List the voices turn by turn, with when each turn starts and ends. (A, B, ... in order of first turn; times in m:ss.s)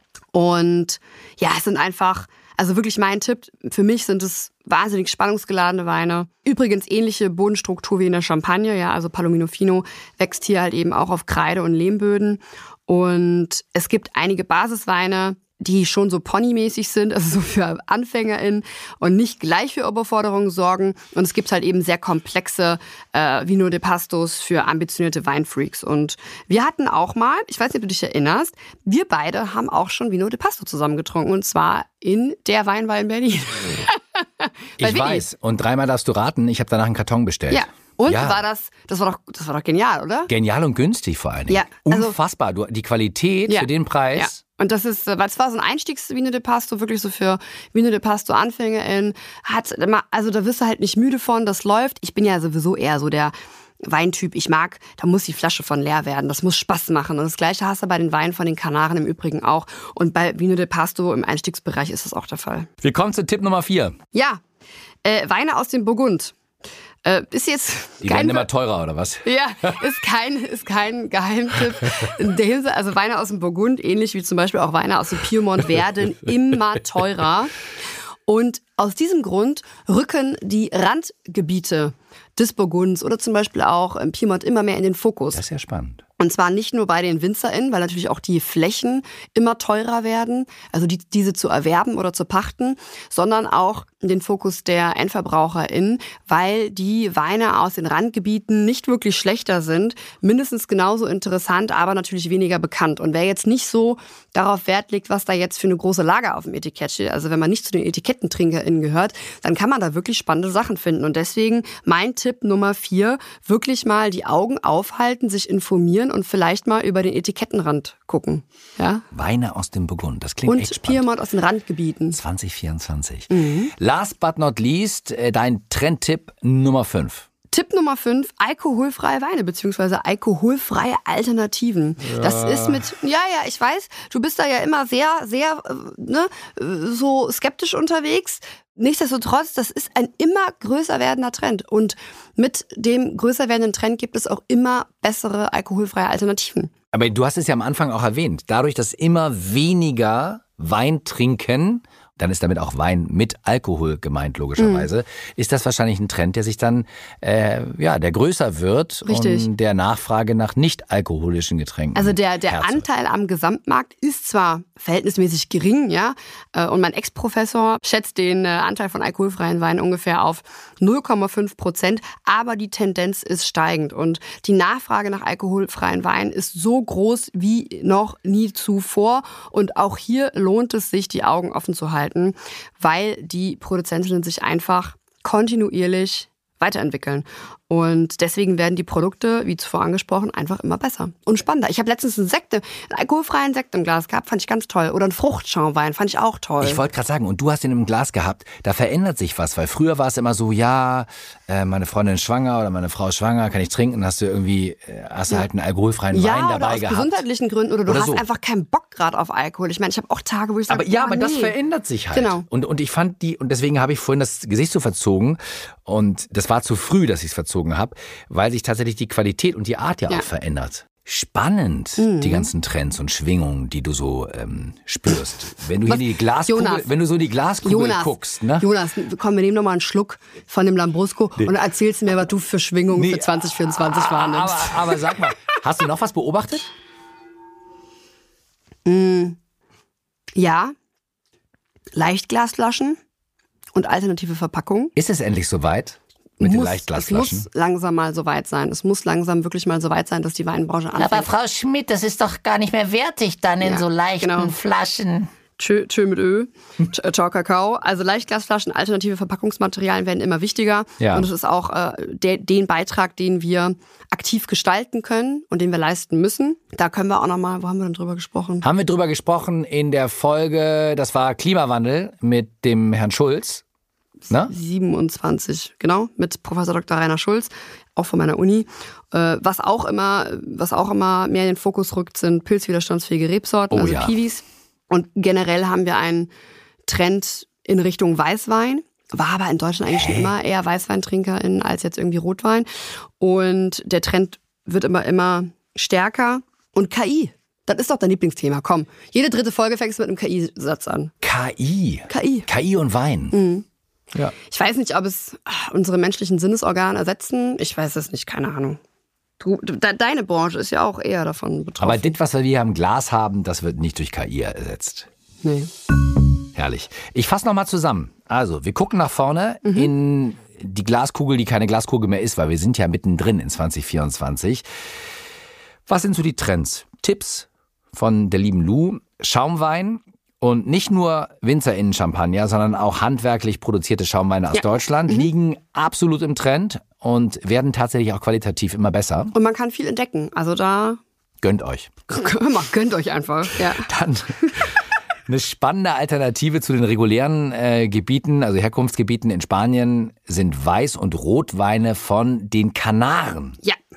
0:00.3-0:35.2 A
0:34.8-0:38.4 B
0:37.5-0:40.3 A
0:40.3-0:44.4 B
0:41.5-0:42.2 A
0:43.5-0:53.3 A
0:53.9-1:02.7 A
1:02.8-1:03.9 B
1:04.1-1:04.4 A
1:05.0-1:06.4 A
1:07.0-1:08.5 A
1:08.0-1:09.8 B
1:09.2-1:17.6 A
1:18.3-1:25.4 A
1:25.4-1:26.0 B
1:26.2-1:59.0 A
1:59.1-2:01.0 B
2:00.5-2:02.2 A
2:02.1-2:07.3 B
2:03.3-2:03.7 A
2:07.5-2:26.7 A
2:12.0-2:12.9 B
2:26.9-2:42.8 B
2:34.6-2:34.9 A
2:39.1-2:39.5 A
2:42.0-3:16.8 A
3:16.6-3:27.2 B
3:26.1-3:31.6 A
3:27.9-3:28.2 B
3:30.7-3:48.7 B
3:32.1-3:32.4 A
3:42.0-3:42.5 A
3:45.9-3:46.9 A
3:47.6-3:55.2 A
3:53.0-3:56.7 B
3:58.8-3:59.4 A
4:00.4-4:00.7 A
4:01.9-4:03.0 A
4:03.8-4:04.9 A
4:05.0-4:07.5 B
4:06.4-4:11.3 A
4:11.0-4:15.3 C
4:13.6-4:14.6 A
4:15.6-4:28.7 A
4:21.0-4:21.3 B
4:28.6-4:33.6 B
4:34.4-4:46.3 A
4:43.7-4:44.2 B
4:46.9-4:52.7 A
4:49.9-4:50.3 B
4:53.2-5:01.1 A
5:01.2-5:03.4 B
5:02.1-5:02.5 A
5:03.3-5:03.6 A
5:04.4-5:08.8 A
5:09.4-5:12.0 A
5:11.8-5:15.1 B
5:15.4-5:15.7 A
5:16.6-5:24.6 B
5:19.7-5:19.9 A
5:25.9-5:39.3 B
5:34.5-5:35.3 A
5:39.3-5:41.0 A
5:41.4-5:41.9 B
5:42.1-5:43.9 A
5:43.8-5:44.8 B
5:44.4-5:44.7 A
5:45.3-5:53.6 B